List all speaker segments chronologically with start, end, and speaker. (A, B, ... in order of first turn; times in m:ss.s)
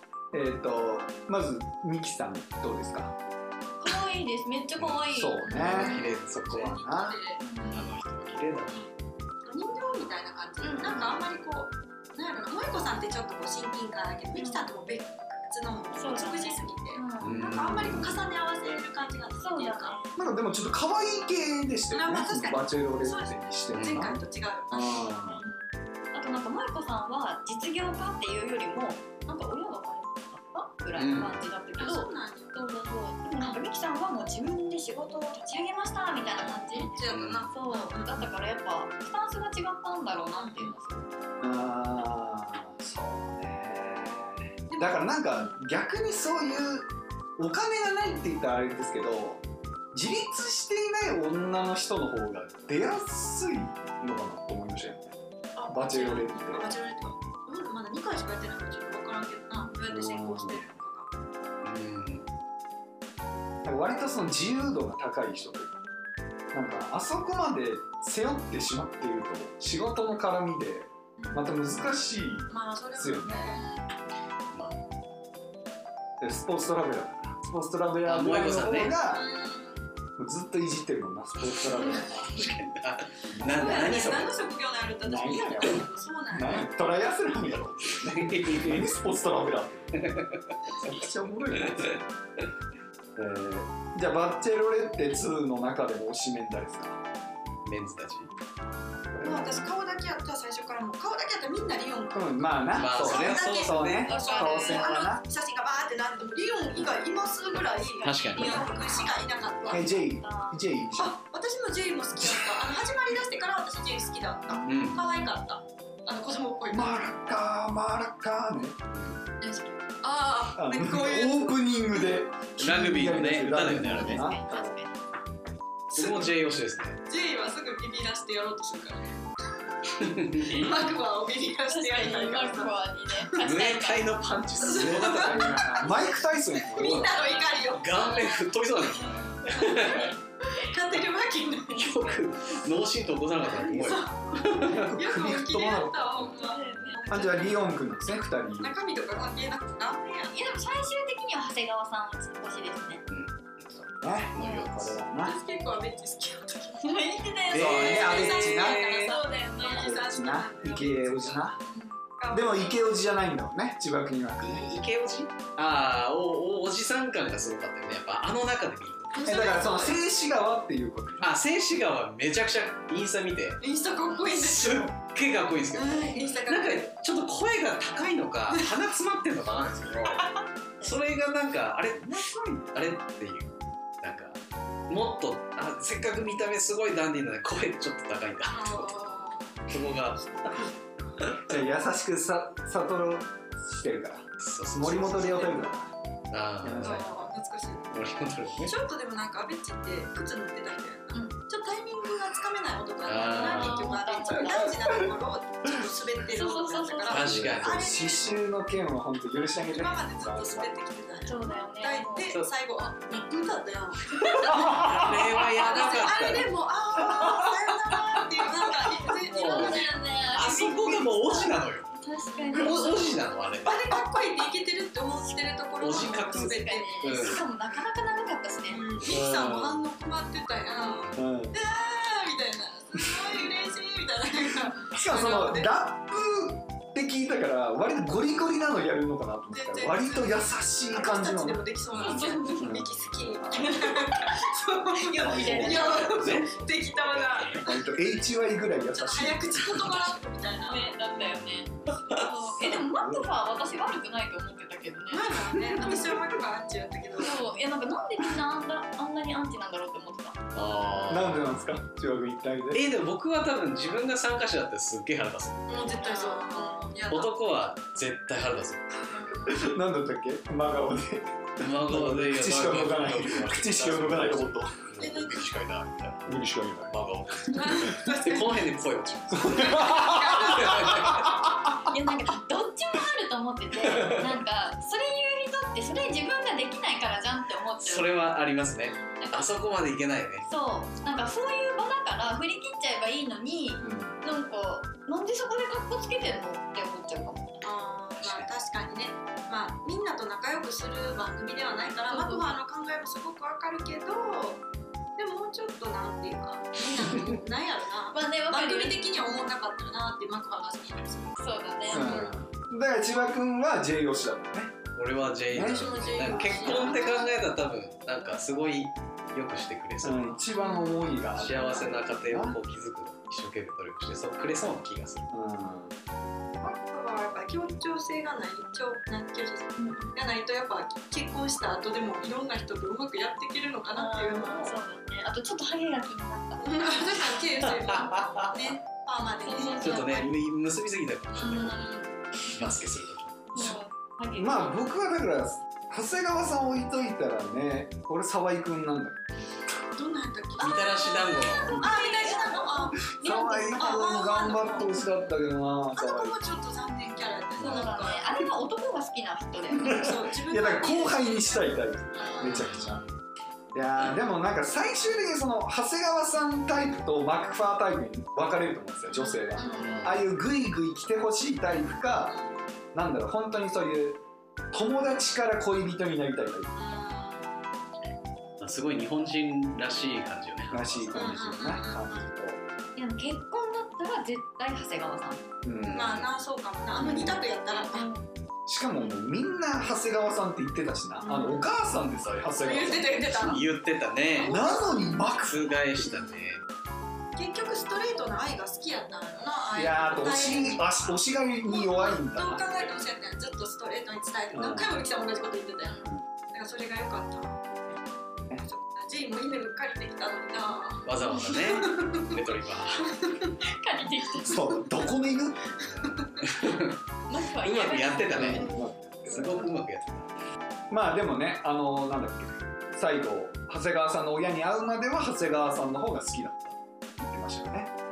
0:00.3-0:03.1 A
0:03.8-0:05.4 B
0:04.8-0:06.8 C
0:05.1-0:07.2 A
0:05.4-0:07.9 D
0:07.4-0:07.8 B
0:07.7-0:08.9 C
0:09.5-0:20.0 D
0:10.6-0:11.1 B
0:10.8-0:11.1 C
0:14.3-0:14.7 B
0:15.9-0:17.4 B
0:17.2-0:18.2 C
0:17.8-0:18.0 A
0:19.4-0:20.2 B
0:20.2-0:25.4 A
0:21.9-0:25.6 D
0:23.7-0:24.1 C
0:26.1-0:37.0 B
0:31.0-0:31.4 C
0:31.8-0:32.6 D
0:36.2-0:38.3 D
0:37.1-0:37.5 C
0:37.5-0:41.1 B
0:40.3-0:40.8 D
0:41.4-0:49.4 A
0:44.7-0:45.5 D
0:49.9-0:55.2 A
0:55.6-1:01.1 D
0:55.7-0:56.7 A
0:59.9-1:00.6 A
1:01.6-1:02.3 C
1:03.6-1:05.7 A
1:06.5-1:13.6 A
1:11.2-1:11.5 D
1:12.5-1:13.8 D
1:16.2-1:19.3 A
1:18.0-1:18.9 C
1:19.1-1:19.9 D
1:20.2-1:22.5 A
1:21.6-1:24.3 C
1:23.3-1:23.8 A
1:23.6-1:26.7 D
1:25.0-1:30.0 A
1:27.9-1:29.0 C
1:29.9-1:31.0 C
1:30.8-1:32.0 A
1:31.5-1:32.0 C
1:33.2-1:37.0 A
1:37.7-1:38.3 C
1:39.1-1:39.7 A
1:39.2-1:50.0 D
1:42.1-1:45.2 A
1:42.8-1:44.1 C
1:44.1-1:45.0 B
1:47.6-1:50.6 B
1:48.0-1:48.7 C
1:49.7-1:51.2 A
1:51.0-1:57.1 D
1:52.2-1:52.7 A
1:54.5-1:55.3 B
1:54.7-1:55.0 C
1:56.7-1:58.8 A
1:59.4-2:02.1 D
2:00.6-2:04.8 A
2:02.6-2:04.2 C
2:04.0-2:05.0 B
2:05.9-2:06.4 D
2:05.9-2:07.0 C
2:07.1-2:09.1 D
2:10.0-2:10.7 C
2:10.4-2:13.3 D
2:11.7-2:14.2 B
2:13.4-2:15.9 C
2:14.6-2:16.0 D
2:14.7-2:17.2 A
2:16.7-2:18.2 D
2:16.8-2:20.1 C
2:16.9-2:20.7 B
2:19.5-2:22.2 D
2:21.7-2:24.9 C
2:21.9-2:22.6 B
2:23.5-2:27.7 D
2:24.7-2:26.3 A
2:26.3-2:27.3 B
2:27.1-2:28.8 A
2:28.6-2:30.4 D
2:30.3-2:33.0 B
2:33.1-2:35.0 C
2:34.0-2:35.4 A
2:34.4-2:34.7 B
2:35.2-2:37.3 D
2:36.8-2:40.0 B
2:37.5-2:39.0 A
2:37.5-2:39.2 C
2:37.9-2:42.8 D
2:39.8-2:41.6 A
2:42.3-2:44.7 A
2:44.4-2:49.4 C
2:49.1-2:50.0 D
2:49.3-2:51.3 A
2:51.2-2:53.6 C
2:53.6-2:54.9 D
2:54.2-3:02.2 C
2:55.7-2:56.9 D
2:58.5-2:58.8 D
3:02.0-3:02.7 A
3:02.7-3:04.4 C
3:04.9-3:09.0 C
3:08.5-3:10.6 D
3:09.7-3:10.6 C
3:11.5-3:15.9 A
3:14.4-3:15.5 C
3:16.3-3:17.0 C
3:16.6-3:17.3 A
3:16.8-3:18.1 D
3:17.9-3:18.8 C
3:18.6-3:28.3 D
3:23.0-3:24.0 C
3:23.3-3:24.8 B
3:26.3-3:27.2 B
3:27.1-3:27.8 C
3:27.1-3:30.7 A
3:29.6-3:40.0 D
3:31.2-3:32.4 B
3:34.2-3:34.6 B
3:34.4-3:38.2 C
3:39.0-3:42.0 C
3:39.0-3:43.2 B
3:42.3-3:42.8 D
3:42.6-3:44.0 C
3:43.6-3:47.4 D
3:45.2-3:48.9 B
3:45.8-3:47.4 C
3:48.7-3:55.8 D
3:49.0-3:49.8 A
3:51.1-3:51.6 A
3:54.9-4:01.6 A
3:59.5-4:07.8 D
4:02.0-4:02.2 C
4:02.0-4:02.8 B
4:02.6-4:03.4 A
4:03.5-4:04.3 B
4:05.0-4:06.2 B
4:05.3-4:07.7 C
4:05.3-4:05.8 A
4:07.6-4:09.7 A
4:08.9-4:10.9 D
4:09.7-4:10.1 C
4:10.7-4:15.3 B
4:11.5-4:12.2 C
4:12.7-4:13.3 A
4:15.1-4:17.4 D
4:15.8-4:16.2 B
4:17.2-4:20.4 B
4:20.5-4:21.5 C
4:21.1-4:22.9 A
4:22.7-4:25.7 C
4:25.7-4:27.4 D
4:25.9-4:27.0 B
4:27.1-4:28.9 C
4:29.1-4:29.7 D
4:29.5-4:34.8 A
4:31.6-4:36.3 C
4:35.0-4:35.4 D
4:36.3-4:36.9 A
4:36.9-4:41.4 C
4:37.5-4:38.6 D
4:39.4-4:41.5 A
4:39.4-4:41.2 D
4:41.8-4:48.2 B
4:43.8-4:44.4 C
4:47.8-4:50.5 C
4:48.8-4:49.2 D
4:49.2-4:49.6 B
4:50.4-4:57.6 B
4:53.8-4:54.0 D
4:53.8-4:54.2 A
4:57.6-5:04.6 D
4:58.2-4:58.5 C
5:02.1-5:02.5 B
5:05.2-5:11.4 D
5:08.1-5:09.0 B
5:11.4-5:12.3 B
5:11.9-5:12.3 D
5:11.9-5:14.8 A
5:15.0-5:20.4 C
5:15.5-5:16.9 A
5:15.5-5:17.3 D
5:16.7-5:17.3 B
5:20.0-5:22.6 A
5:20.6-5:21.2 D
5:21.4-5:25.3 C
5:25.3-5:25.9 A
5:26.6-5:34.8 D
5:29.8-5:30.1 B
5:33.9-5:37.0 B
5:36.6-5:40.3 D
5:37.7-5:38.5 C
5:39.4-5:40.2 B
5:39.8-5:41.8 C
5:41.4-5:42.1 D
5:41.4-5:41.9 B
5:42.6-5:43.5 C
5:43.5-5:44.8 B
5:44.4-5:49.2 A
5:49.9-5:55.0 D
5:50.6-5:51.9 C
5:50.6-5:54.1 B
5:53.2-5:56.4 A
5:56.0-5:58.3 D
5:57.6-5:58.0 C
5:57.6-5:59.9 B
5:59.7-6:03.0 A
5:59.8-6:03.0 D
6:02.2-6:02.6 B
6:02.7-6:03.1 C
6:03.7-6:12.4 A
6:09.1-6:09.8 D
6:09.6-6:10.2 B
6:09.7-6:10.3 C
6:12.3-6:12.7 D
6:12.9-6:16.8 A
6:16.7-6:17.6 D
6:18.6-6:21.6 C
6:20.7-6:22.6 A
6:21.1-6:22.3 D
6:23.0-6:25.4 B
6:25.6-6:26.1 A
6:25.8-6:26.3 C
6:25.9-6:28.1 D
6:27.0-6:27.4 A
6:27.0-6:27.3 B
6:27.9-6:28.2 B
6:28.7-6:33.6 A
6:31.2-6:31.7 D
6:32.6-6:33.6 D
6:33.4-6:34.6 C
6:34.4-6:35.3 D
6:34.4-6:35.7 A
6:35.4-6:36.6 C
6:36.0-6:36.5 D
6:37.4-6:41.1 D
6:39.8-6:42.9 A
6:40.5-6:41.0 C
6:41.6-6:47.7 D
6:44.5-6:45.0 A
6:48.6-6:52.3 D
6:51.0-6:53.2 C
6:53.1-6:53.6 D
6:53.6-6:54.8 B
6:54.4-6:55.7 A
6:55.8-6:57.0 C
6:56.0-6:56.4 D
6:57.3-6:58.8 B
6:57.6-6:58.7 C
6:58.3-6:59.7 A
6:58.5-6:59.7 D
6:59.3-7:00.3 C
7:00.9-7:07.9 A